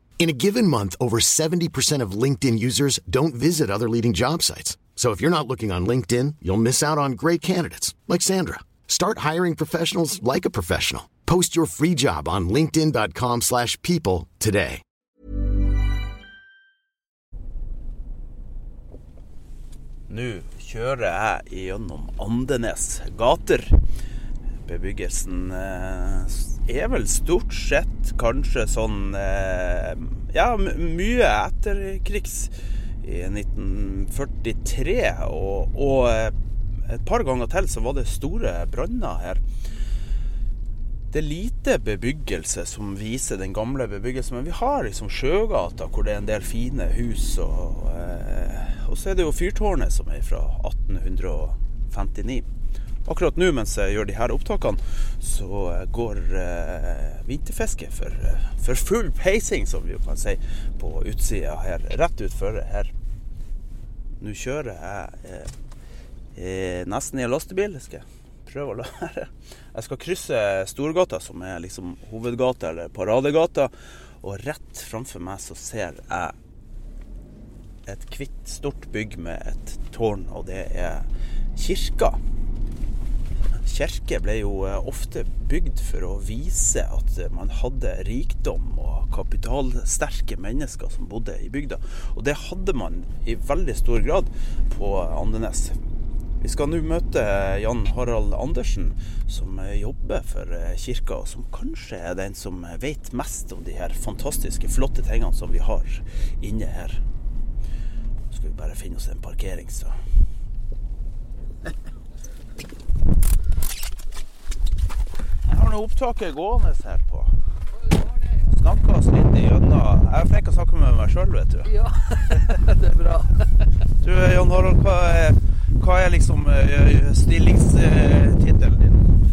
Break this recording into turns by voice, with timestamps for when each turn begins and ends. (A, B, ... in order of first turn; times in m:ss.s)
0:00.2-0:14.8 A
0:20.1-0:23.8 B
0:24.6-0:39.4 B
0:41.1-0:52.5 B
0:53.0-1:02.9 B
1:04.2-1:05.5 B
1:06.4-1:16.4 B
1:17.9-1:22.2 B
1:23.5-1:35.8 B
1:36.4-1:47.0 B
1:48.3-1:50.0 B
1:55.4-1:57.4 B
1:57.8-1:58.6 C
1:58.5-2:01.7 B
2:01.6-2:03.5 C
2:04.0-2:09.1 B